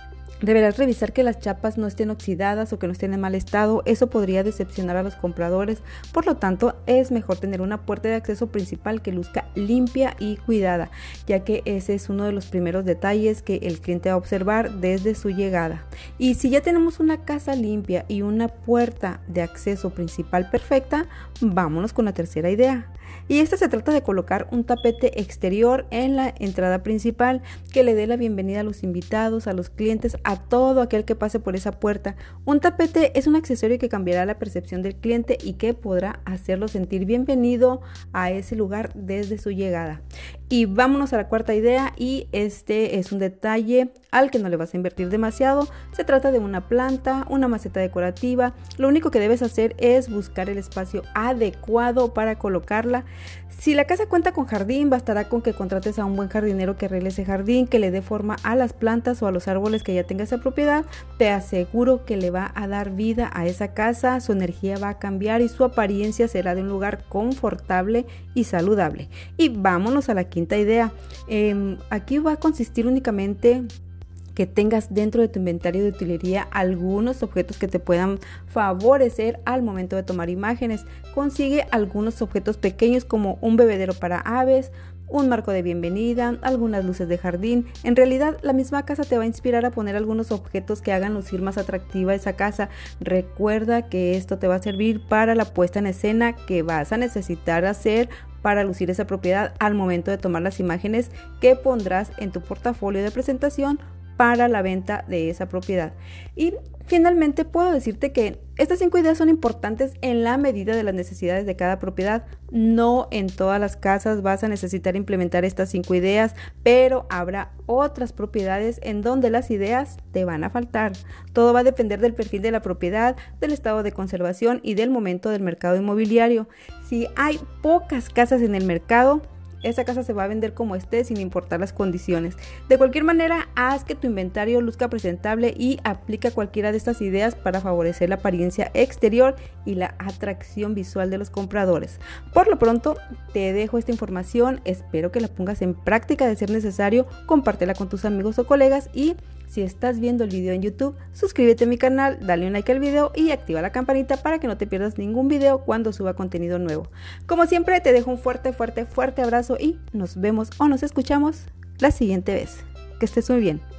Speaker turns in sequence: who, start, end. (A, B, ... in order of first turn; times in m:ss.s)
0:00.4-1:13.7 A
1:14.3-2:43.6 A